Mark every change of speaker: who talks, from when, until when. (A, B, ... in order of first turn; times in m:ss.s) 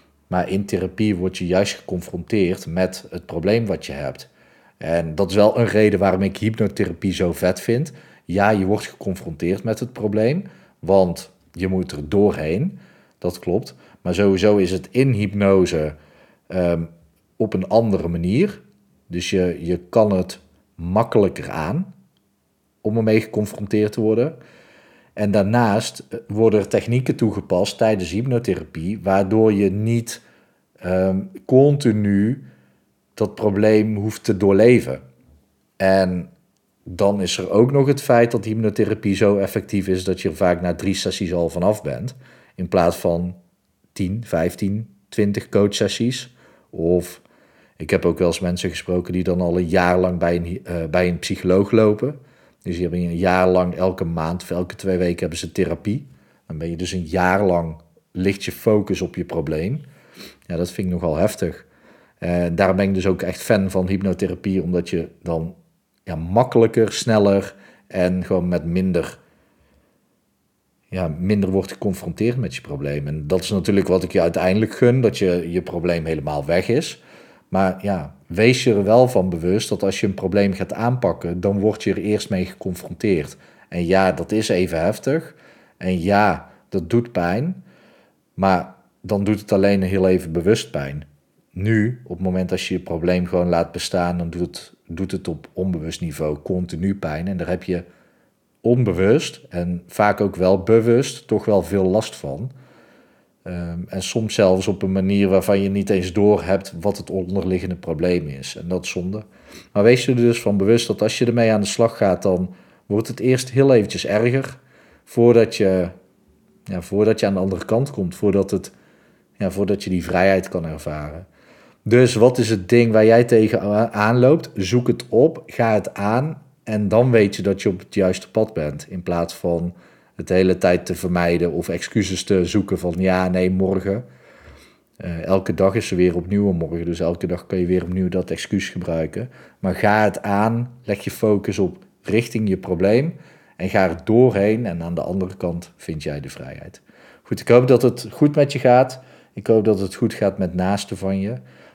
0:00.3-0:16.0 A
0:16.5-0:21.9 A
0:22.8-0:24.4 A
0:25.2-0:30.2 A
0:30.8-0:32.4 A
0:33.2-0:35.0 A
0:35.8-0:36.3 A
0:36.9-0:43.4 A
0:43.9-0:47.2 A
0:47.8-0:59.9 A
1:00.5-1:01.7 A
1:02.2-1:09.2 A
1:10.9-1:27.6 A
1:28.4-1:37.9 A
1:38.6-1:42.5 A
1:43.4-1:55.9 A
1:56.7-1:58.7 A
1:59.4-2:01.3 A
2:01.8-2:14.0 A
2:15.0-2:31.4 A